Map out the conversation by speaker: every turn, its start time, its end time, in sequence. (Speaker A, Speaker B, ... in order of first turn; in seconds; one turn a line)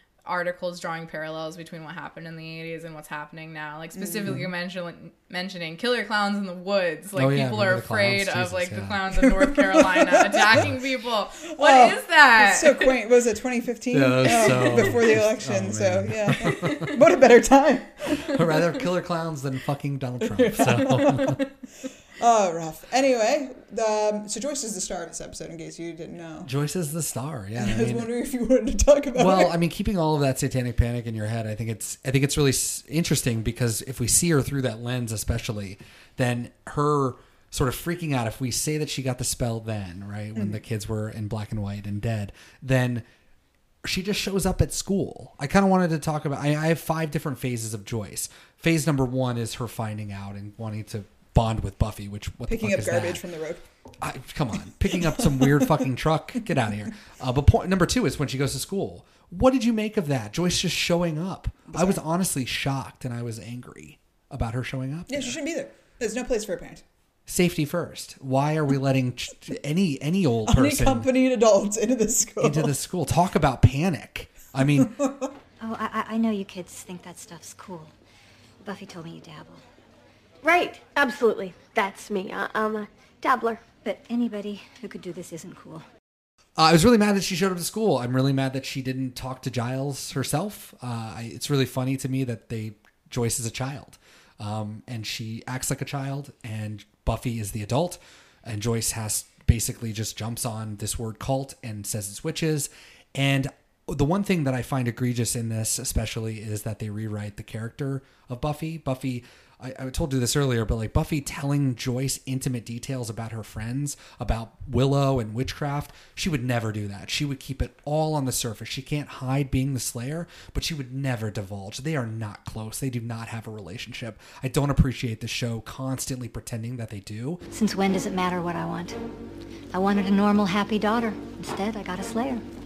Speaker A: 0.2-12.9
Speaker B: 4.0-4.4
Speaker C: 7.2-9.0
Speaker B: 9.4-10.6
Speaker B: 11.5-18.8
Speaker C: 13.9-17.0
Speaker C: 18.2-21.4
Speaker B: 20.3-21.4
Speaker B: 22.2-26.5
Speaker C: 26.4-28.1
Speaker B: 27.6-29.6
Speaker C: 29.1-43.0
Speaker B: 40.4-40.6
Speaker C: 43.8-53.2
Speaker B: 52.5-53.6
Speaker C: 54.0-65.4
Speaker B: 54.9-55.9
Speaker B: 61.7-62.0
Speaker B: 65.1-66.8
Speaker C: 67.3-71.1
Speaker B: 70.5-72.7
Speaker C: 72.4-75.0
Speaker B: 74.8-75.3
Speaker D: 75.6-77.9
Speaker D: 78.6-79.6
Speaker E: 80.4-83.7
Speaker D: 83.8-85.8
Speaker C: 86.6-127.4
Speaker D: 127.5-129.0
Speaker D: 129.7-132.5